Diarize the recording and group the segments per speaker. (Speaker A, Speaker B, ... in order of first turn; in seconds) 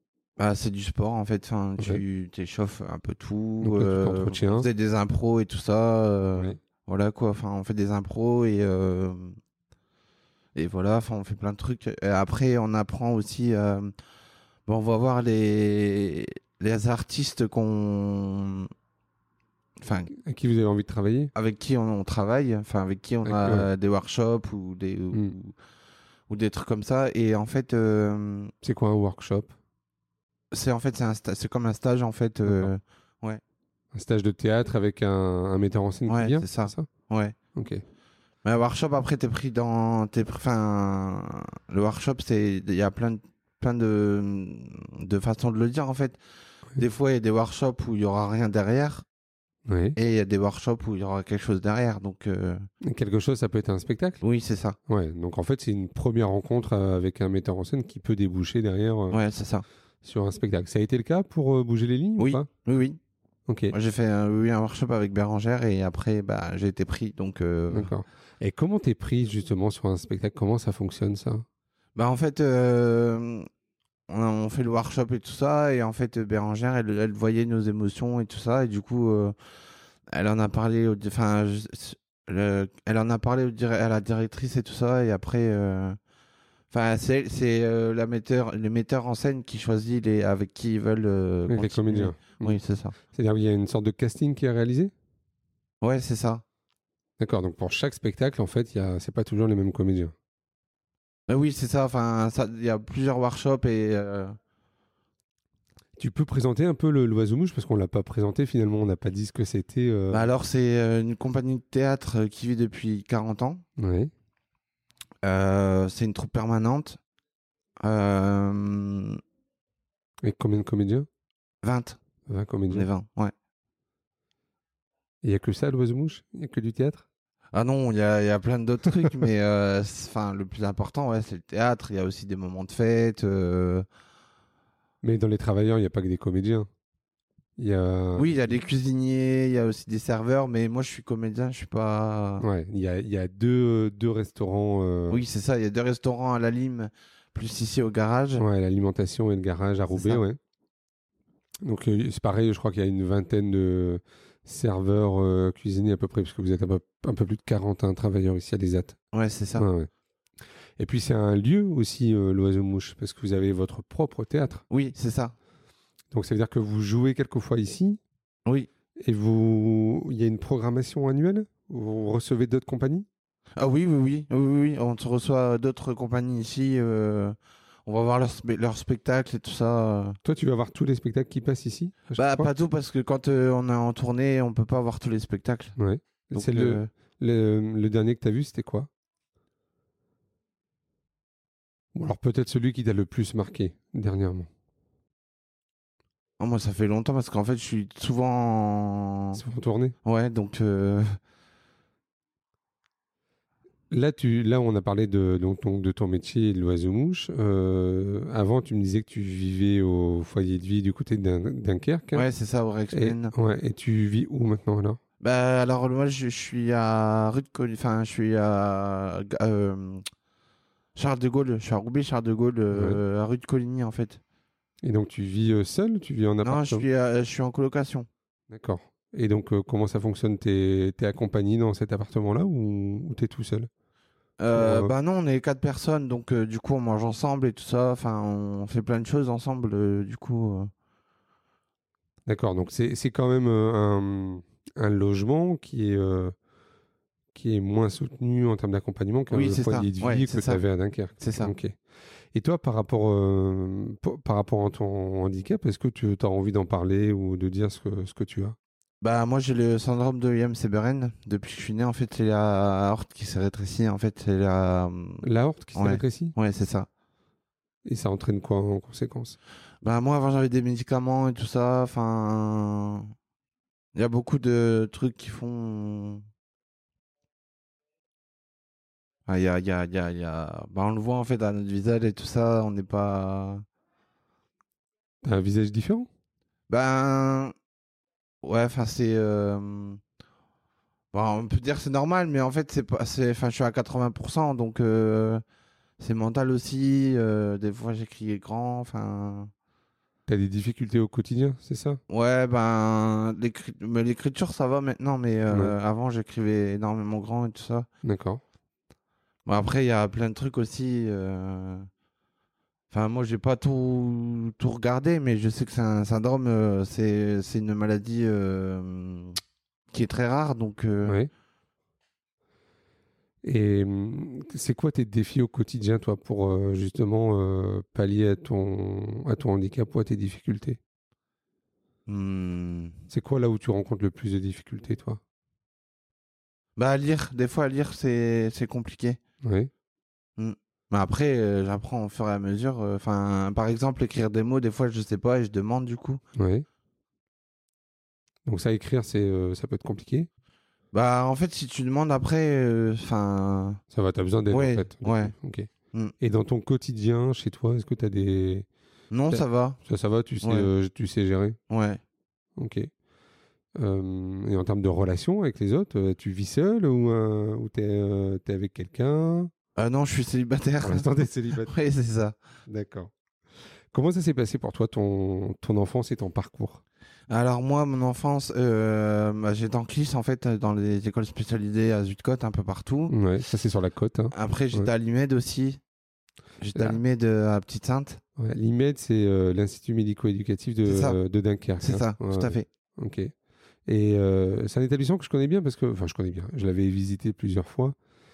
Speaker A: 0.4-9.4, 10.5-13.9, 14.7-18.7, 19.8-20.1, 21.3-25.6, 26.3-28.5, 30.5-33.4, 36.1-37.4, 38.4-46.2, 46.8-49.0, 50.0-52.6, 54.2-54.8, 59.1-59.6, 62.2-63.0, 63.7-67.9, 72.0-73.5, 74.1-79.3, 80.1-86.0, 86.7-92.9, 95.8-96.4, 101.3-104.3, 110.1-113.6, 115.2-117.0, 117.8-119.2, 121.6-122.0, 122.7-123.3, 127.5-133.8, 138.2-142.4, 145.1-148.4, 149.9-150.2, 159.1-159.7, 164.7-165.3, 173.6-180.2, 182.2-185.8, 186.3-186.9, 196.4-199.4, 200.0-201.2, 212.1-213.3, 215.2-220.0, 220.9-224.2, 226.4-228.1, 234.4-240.7, 249.3-250.6, 251.2-251.5, 259.0-265.2, 265.8-266.9, 269.8-273.1, 273.9-276.2, 279.3-283.6, 286.7-287.5, 288.4-290.0, 291.1-295.4, 296.0-299.5, 302.1-307.9, 309.4-311.9, 312.9-319.4, 319.9-321.2, 332.1-332.9, 336.8-339.2, 340.4-346.2, 350.9-353.8, 354.5-355.3, 359.1-359.8, 360.4-360.7, 361.7-362.0, 369.8-372.4, 377.3-383.1, 384.3-385.8, 386.6-388.2, 390.8-391.2, 391.8-392.6
Speaker B: 3.6-4.7, 20.1-21.3, 23.2-23.7, 28.6-29.5, 33.9-36.9, 37.5-37.8, 49.7-50.0, 52.8-54.2, 54.9-59.2, 60.0-62.5, 63.5-63.8, 67.7-71.5, 91.5-92.6, 93.1-94.9, 97.2-100.1, 106.0-110.3, 113.8-114.1, 120.2-121.1, 122.3-122.9, 125.2-127.0, 135.0-136.7, 137.6-138.3, 142.4-145.2, 148.4-150.4, 151.6-159.0, 159.6-159.9, 160.8-164.6, 166.1-168.0, 169.0-173.1, 180.2-182.5, 185.8-188.9, 191.9-194.5, 199.3-199.9, 203.9-212.3, 212.9-215.0, 222.7-223.0, 224.8-226.8, 228.5-233.7, 234.5-234.9, 242.2-246.3, 247.3-251.8, 252.3-258.6, 265.2-266.3, 267.8-269.4, 285.2-286.1, 300.3-302.0, 308.0-308.4, 321.0-321.3, 323.4-330.8, 333.1-335.2, 339.4-339.7, 346.4-346.6, 348.4-350.3, 353.9-358.7, 359.3-361.6, 362.6-362.9, 363.8-369.5, 370.8-371.7, 372.7-373.1, 373.9-376.8, 383.1-384.9, 386.8-387.0, 388.4-393.3, 393.9-397.9